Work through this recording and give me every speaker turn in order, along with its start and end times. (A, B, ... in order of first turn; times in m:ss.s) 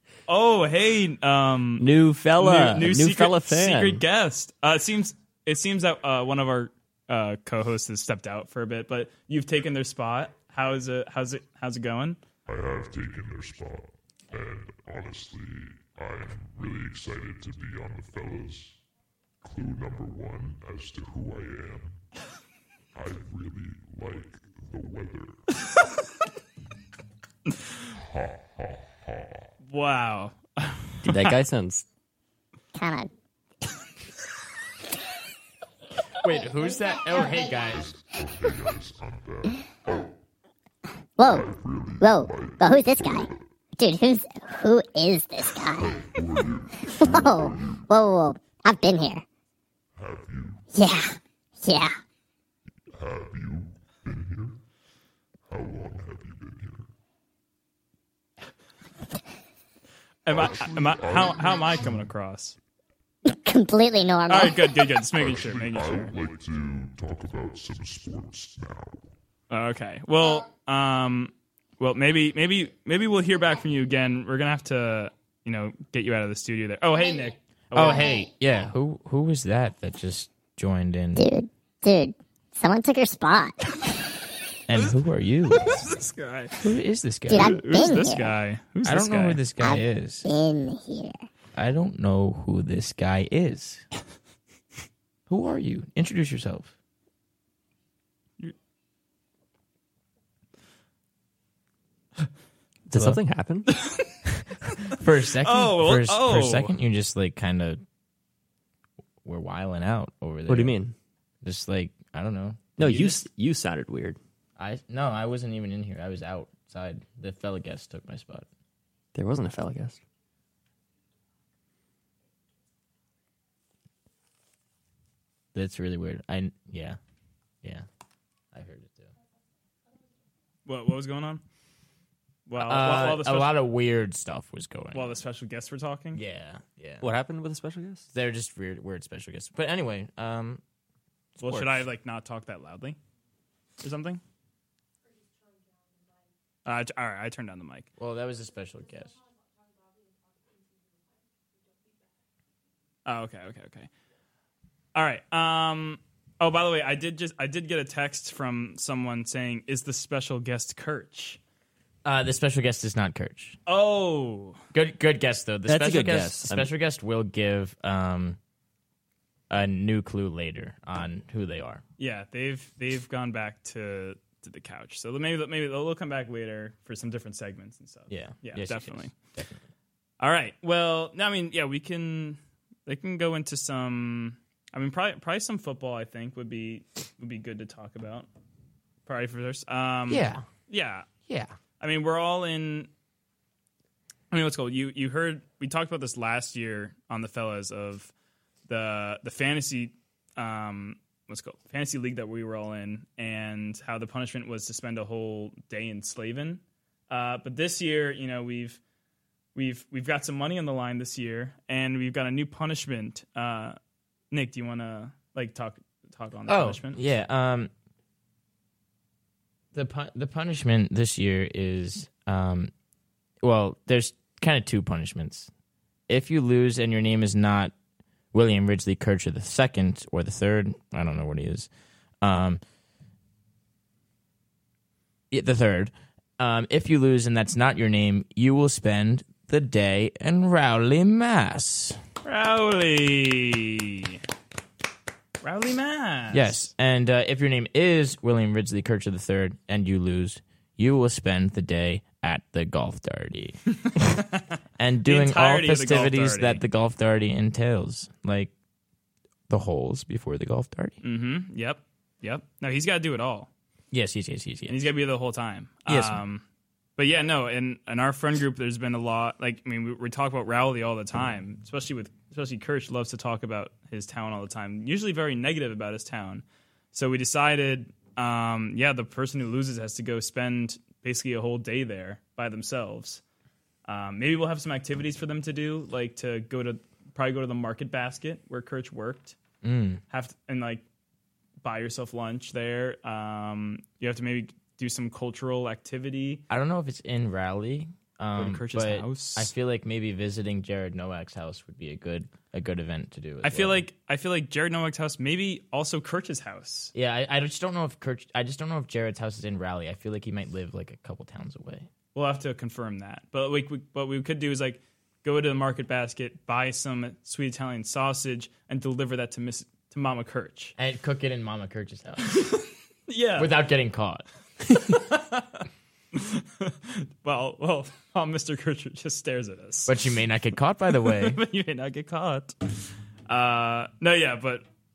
0:00.3-0:12.2 A
0:01.8-0:04.0 B
0:12.5-0:18.8 C
0:19.4-0:22.0 C
0:23.0-0:25.4 C
0:27.8-0:29.5 C
0:29.7-0:31.4 A
0:31.0-0:31.8 B
0:32.8-0:33.1 D
0:36.2-0:37.9 E
0:37.1-0:37.5 D
0:37.7-0:40.2 C
0:41.2-0:41.5 D
0:41.2-0:43.4 C
0:42.0-0:45.9 D
0:45.7-0:47.9 C
0:46.9-0:49.2 D
0:50.0-0:50.7 C
0:50.7-0:51.9 D
0:52.9-0:54.6 C
0:55.5-0:56.9 C
1:00.2-1:02.6 A
1:00.3-1:02.0 C
1:03.3-1:04.9 D
1:04.3-1:06.1 A
1:05.2-1:09.1 C
1:09.5-1:18.1 A
1:17.7-1:21.2 E
1:21.2-1:23.8 D
1:24.7-1:25.8 E
1:25.5-1:26.6 A
1:26.6-1:27.6 E
1:27.3-1:28.4 D
1:27.3-1:29.4 A
1:28.8-1:30.3 E
1:29.6-1:31.2 D
1:31.6-1:33.8 E
1:35.3-1:36.7 E
1:42.9-1:43.7 B
1:42.9-1:43.2 E
1:43.7-1:44.1 A
1:44.9-1:47.8 E
1:45.4-1:46.7 A
1:49.2-1:50.8 E
1:50.5-1:51.0 B
1:51.4-1:53.1 E
1:52.8-1:54.2 B
1:54.6-1:58.5 E
1:59.2-2:00.0 B
2:05.6-2:07.0 E
2:08.5-2:09.1 E
2:10.7-2:11.4 A
2:12.5-2:13.5 A
2:12.6-2:15.2 E
2:14.9-2:16.2 A
2:16.1-2:17.1 E
2:17.0-2:18.1 B
2:18.1-2:20.6 E
2:21.4-2:21.8 E
2:21.4-2:23.0 A
2:23.8-2:24.2 A
2:26.6-2:27.9 A
2:28.0-2:29.2 E
2:33.1-2:33.9 A
2:35.0-2:41.4 A
2:42.0-2:43.6 E
2:43.7-2:44.6 A
2:44.7-2:48.4 E
2:45.7-2:46.7 B
2:49.5-2:51.8 E
2:52.0-2:59.1 A
2:58.1-2:59.6 E
3:00.2-3:08.3 A
3:09.1-3:11.1 A
3:10.1-3:10.5 E
3:11.3-3:11.5 E
3:11.8-3:12.9 A
3:14.3-3:18.1 A
3:18.7-3:28.8 A
3:29.6-3:33.8 A
3:34.3-3:37.0 A
3:36.5-3:37.7 E
3:39.7-3:42.7 E
3:43.4-3:45.5 E
3:46.1-3:47.7 E
3:48.3-3:51.7 E
3:52.2-3:52.6 E
3:55.3-4:02.0 E
4:02.2-4:04.2 A
4:05.4-4:06.6 A
4:06.3-4:14.0 E
4:13.9-4:14.2 A
4:14.8-4:18.5 E
4:15.1-4:16.6 A
4:19.5-4:21.0 E
4:21.0-4:23.5 A
4:23.9-4:24.9 E
4:24.7-4:26.4 A
4:25.9-4:26.2 E
4:27.0-4:43.2 A
4:43.9-4:49.4 A
4:49.6-4:50.0 E
4:50.1-4:50.8 A
4:51.6-4:56.4 A
4:56.5-5:03.8 E
4:58.4-4:59.5 A
5:03.4-5:06.9 A
5:07.0-5:11.9 E
5:12.2-5:20.8 A
5:20.8-5:22.4 E
5:22.3-5:23.6 A
5:23.4-5:24.2 E
5:24.7-5:30.0 A
5:29.9-5:31.4 E
5:30.9-5:32.6 A
5:33.3-5:34.6 A